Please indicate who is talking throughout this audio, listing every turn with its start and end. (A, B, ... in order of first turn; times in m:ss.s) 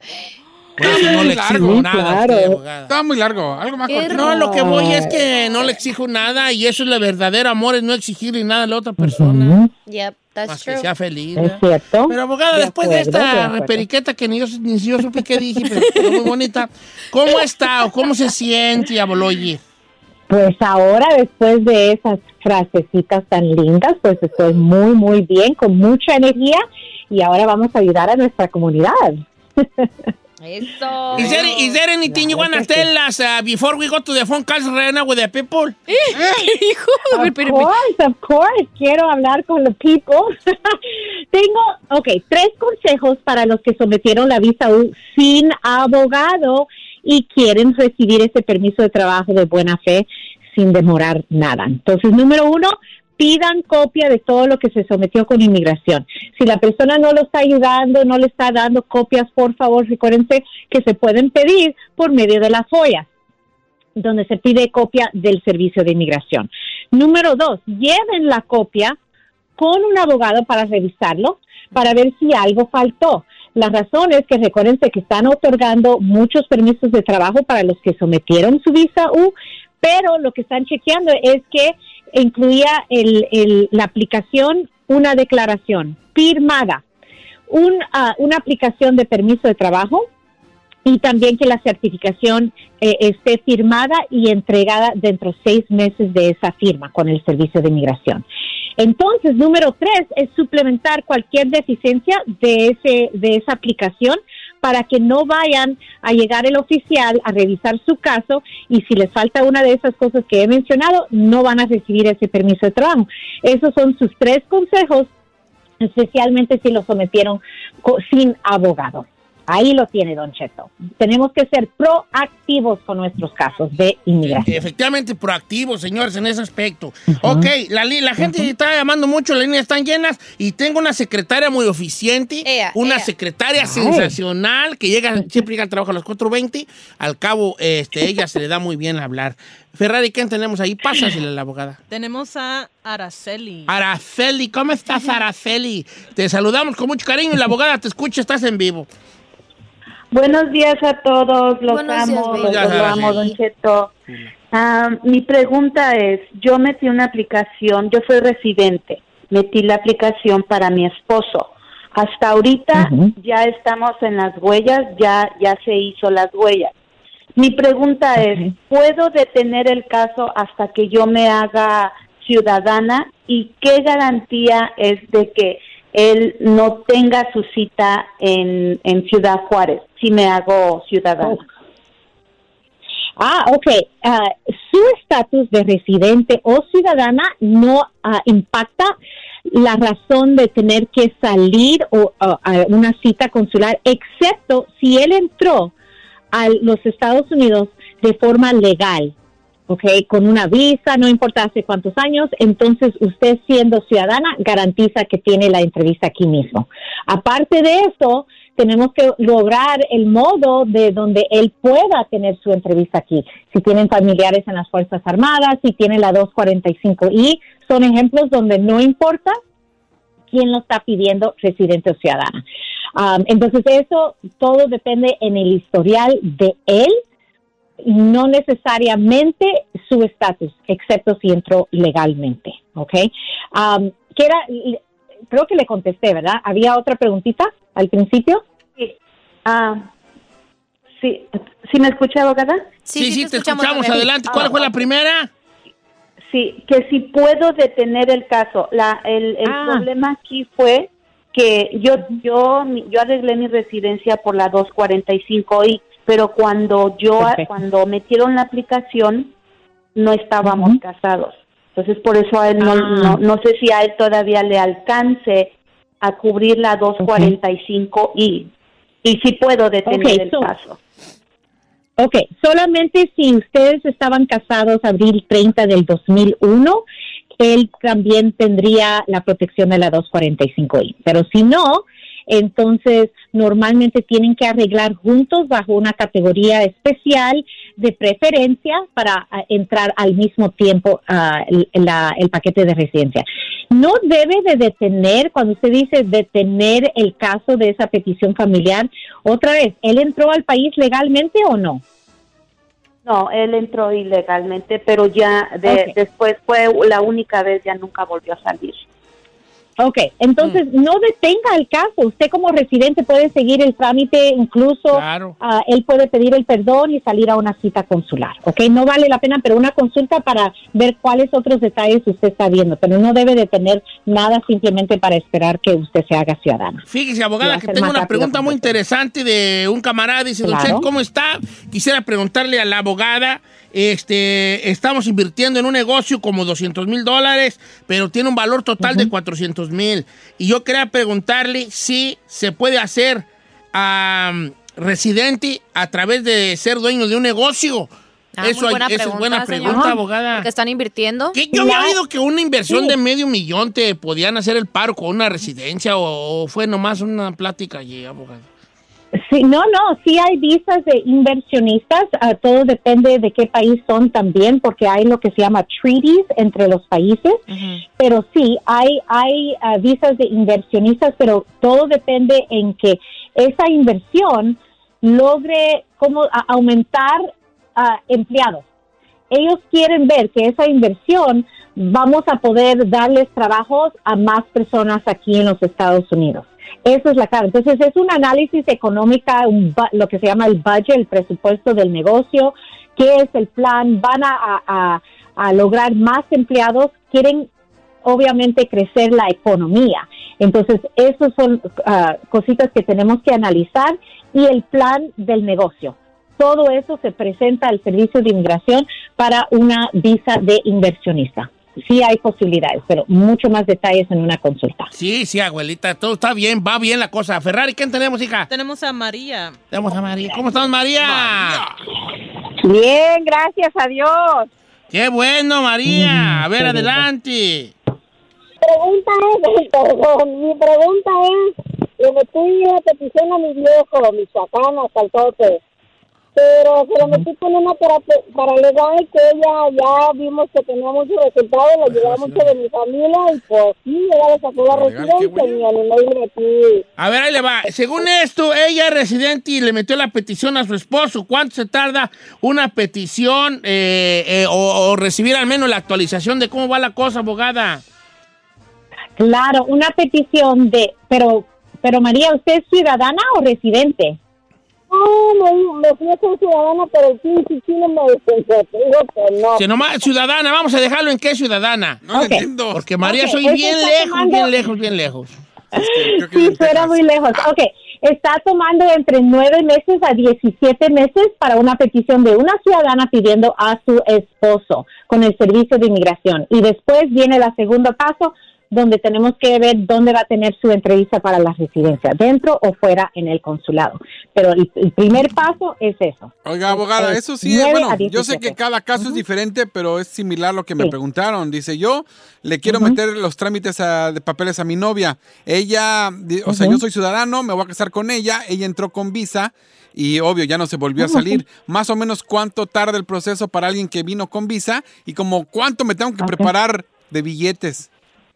0:00.8-0:02.9 A
0:00.8-0:01.8 B
0:00.8-0:02.6 C
0:02.9-0:04.5 B
0:03.9-0:04.7 D
0:04.1-0:09.6 A
0:04.5-0:05.2 C
0:09.0-0:09.7 C
0:09.9-0:10.9 D
0:10.5-0:19.6 A
0:11.4-0:13.8 C
0:20.3-0:29.9 C
0:30.4-0:31.8 D
0:31.1-0:35.8 A
0:32.1-0:32.9 C
0:35.9-0:37.7 D
0:36.1-0:36.5 B
0:37.1-0:40.8 C
0:41.3-1:03.1 C
1:04.0-1:09.0 C
1:09.6-1:26.8 C
1:27.5-1:30.1 C
1:30.8-1:38.2 C
1:38.8-1:55.1 C
1:55.8-2:04.5 C
2:04.3-2:21.8 A
2:07.1-2:07.5 C
2:08.2-2:08.5 C
2:12.4-2:13.1 D
2:13.6-2:14.2 C
2:21.9-2:23.7 E
2:23.7-2:28.9 A
2:30.1-2:33.9 F
2:31.7-2:33.4 D
2:32.4-2:33.3 A
2:34.5-2:46.7 F
2:42.8-2:43.1 C
2:47.4-3:01.4 F
2:48.2-2:48.5 C
3:03.2-3:09.0 C
3:09.5-3:15.7 C
3:16.3-3:19.1 C
3:19.7-3:39.4 C
3:40.3-3:42.4 C
3:42.9-3:47.0 C
3:47.8-3:54.8 C
3:55.3-3:58.4 C
3:58.8-3:59.9 F
4:01.0-4:02.6 F
4:02.8-4:04.6 D
4:02.9-4:05.3 A
4:06.3-4:19.3 F
4:09.4-4:09.8 C
4:17.2-4:17.5 C
4:20.0-4:28.5 F
4:20.4-4:20.8 C
4:22.6-4:23.2 C
4:27.0-4:27.4 C
4:29.0-4:30.8 F
4:29.9-4:30.5 C
4:32.0-4:36.8 C
4:37.4-5:01.8 C
5:03.0-5:08.8 F
5:05.6-5:06.0 C
5:09.8-5:26.8 C
5:14.9-5:15.4 A
5:26.9-5:47.9 A
5:27.4-5:28.8 C
5:30.4-5:30.9 C
5:38.8-5:39.1 C
5:48.4-5:51.4 D
5:48.4-5:50.5 A
5:49.6-5:50.0 C
5:51.3-5:58.5 A
5:51.5-5:52.0 C
5:52.7-5:53.0 C
5:59.2-6:18.6 C
6:07.5-6:07.8 D
6:19.3-6:37.5 C
6:38.0-6:54.9 C
6:54.9-6:58.5 A
6:58.5-6:59.6 E
6:59.7-7:01.6 A
7:01.0-7:01.8 B
7:03.0-7:03.8 G
7:04.9-7:07.7 A
7:05.9-7:07.1 C
7:08.6-7:11.4 G
7:12.0-7:15.6 G
7:16.4-7:26.8 G
7:21.9-7:22.5 A
7:24.7-7:25.6 B
7:27.0-7:37.8 A
7:39.2-7:44.2 C
7:44.9-7:49.6 G
7:49.6-7:52.0 A
7:52.1-7:52.9 B
7:52.1-7:54.5 C
7:52.7-7:55.3 A
7:55.7-8:19.2 C
7:55.7-7:57.5 B
8:16.4-8:37.9 B
8:22.7-8:23.0 C
8:26.5-8:26.8 C
8:31.0-8:31.4 C
8:36.2-8:36.5 C